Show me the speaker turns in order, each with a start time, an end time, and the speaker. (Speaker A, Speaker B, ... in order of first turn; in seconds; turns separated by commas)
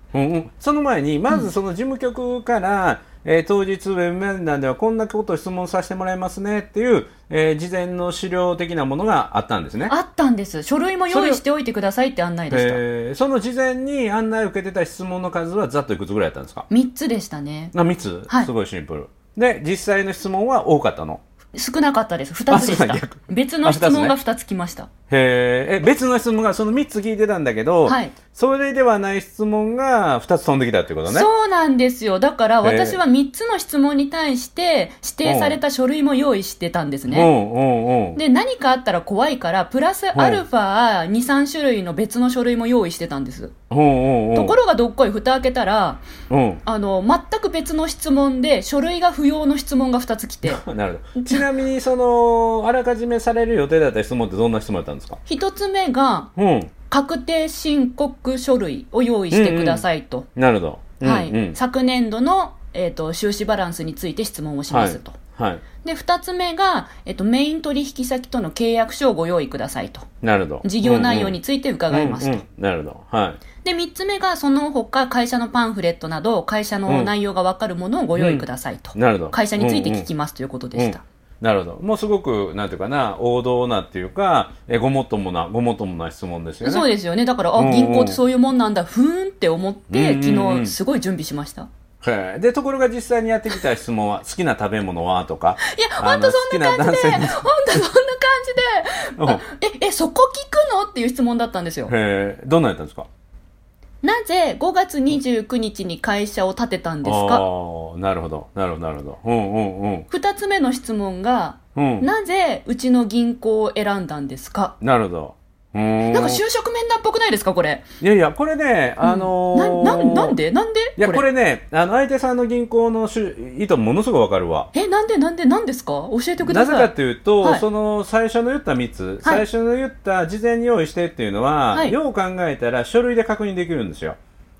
Speaker A: 0.1-9.9, Speaker B: 9.9-12.8, Speaker A: 11.1-11.4, Speaker A: 12.5-16.7, Speaker B: 16.7-17.8, Speaker A: 17.7-21.2, Speaker B: 21.5-24.9, Speaker A: 22.5-24.1, Speaker A: 25.1-31.3, Speaker B: 27.9-28.1, Speaker B: 31.1-37.3, Speaker A: 32.6-33.0, Speaker A: 35.2-35.6, Speaker A: 37.1-38.2, Speaker B: 38.2-43.5, Speaker A: 40.1-40.4, Speaker A: 43.7-44.6, Speaker B: 44.3-46.0, Speaker A: 46.3-46.6, Speaker B: 46.6-50.6, Speaker A: 50.5-55.2, Speaker B: 51.2-51.4, Speaker B: 55.2-56.3, Speaker A: 56.4-56.7, Speaker B: 56.9-60.3, Speaker A: 59.3-61.6, Speaker B: 61.0-65.2, Speaker A: 64.7-65.6, Speaker B: 65.8-70.1, Speaker A: 70.2-71.4, Speaker B: 70.6-72.4, Speaker A: 71.9-73.4, Speaker B: 73.6-81.0, Speaker A: 76.9-77.1, Speaker A: 78.2-80.1, Speaker A: 80.8-86.8, Speaker B: 86.6-91.7, Speaker A: 87.5-88.2, Speaker A: 89.9-90.8, Speaker A: 92.0-97.5, Speaker B: 95.6-101.9, Speaker A: 101.9-103.1, Speaker B: 104.0-107.4, Speaker A: 107.0-110.1, Speaker B: 110.1-114.8, Speaker A: 111.8-112.1, Speaker A: 114.8-116.4, Speaker B: 116.1-117.8, Speaker A: 118.0-120.4, Speaker B: 119.0-121.2, Speaker A: 121.0-124.7, Speaker B: 124.7-127.6, Speaker A: 126.4-134.2